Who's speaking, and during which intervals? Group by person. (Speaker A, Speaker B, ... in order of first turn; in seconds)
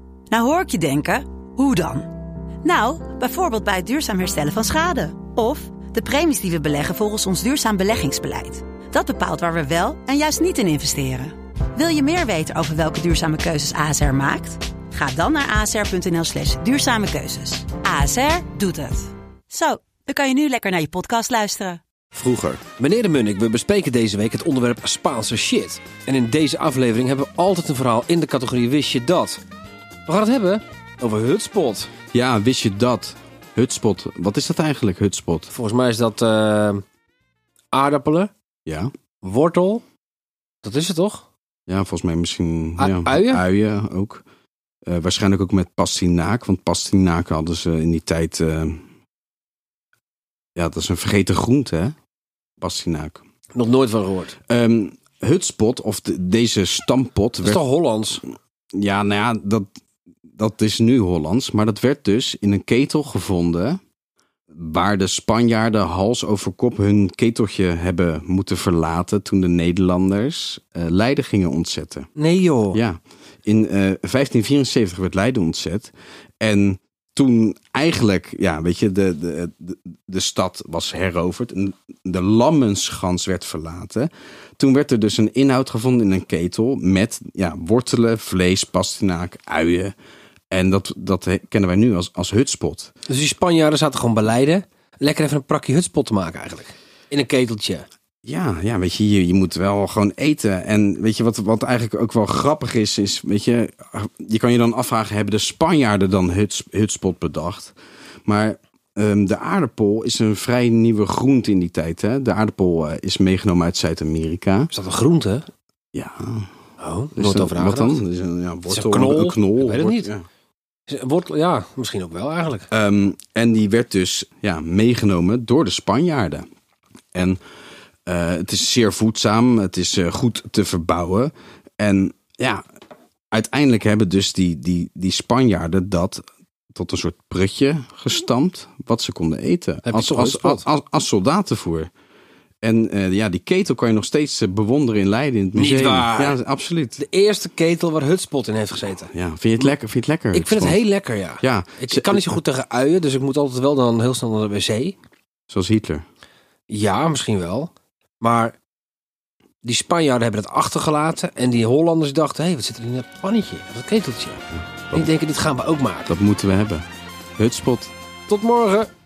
Speaker A: 0.3-2.1, 2.6-21.8
Speaker B: 22.1-22.6, 32.1-35.5, 38.6-38.9, 41.7-44.2, 44.9-48.8, 50.5-51.9, 52.6-53.2, 54.4-57.6, 58.7-59.6, 60.4-63.8, 64.5-72.1, 72.7-89.9, 90.5-92.9, 98.2-107.7, 108.2-114.7, 115.9-116.5, 117.1-120.2, 122.7-126.4, 127.1-127.4, 128.1-132.6, 133.3-141.9, 142.6-147.0, 149.1-150.8, 151.4-152.3, 155.5-156.0, 164.5-165.1, 166.1-166.8, 167.4-167.9
Speaker C: 22.8-29.4, 30.1-31.9, 35.5-36.8, 37.7-38.3, 39.2-39.8, 40.6-41.2, 42.8-43.4, 53.5-54.4, 57.4-58.2, 72.2-72.8, 93.1-97.8, 114.7-115.4, 116.8-118.0, 118.7-120.1, 120.9-122.7, 139.8-140.7, 145.6-146.4, 147.0-149.7, 150.3-154.9, 156.7-157.7, 158.2-158.5, 159.6-166.1, 168.3-168.9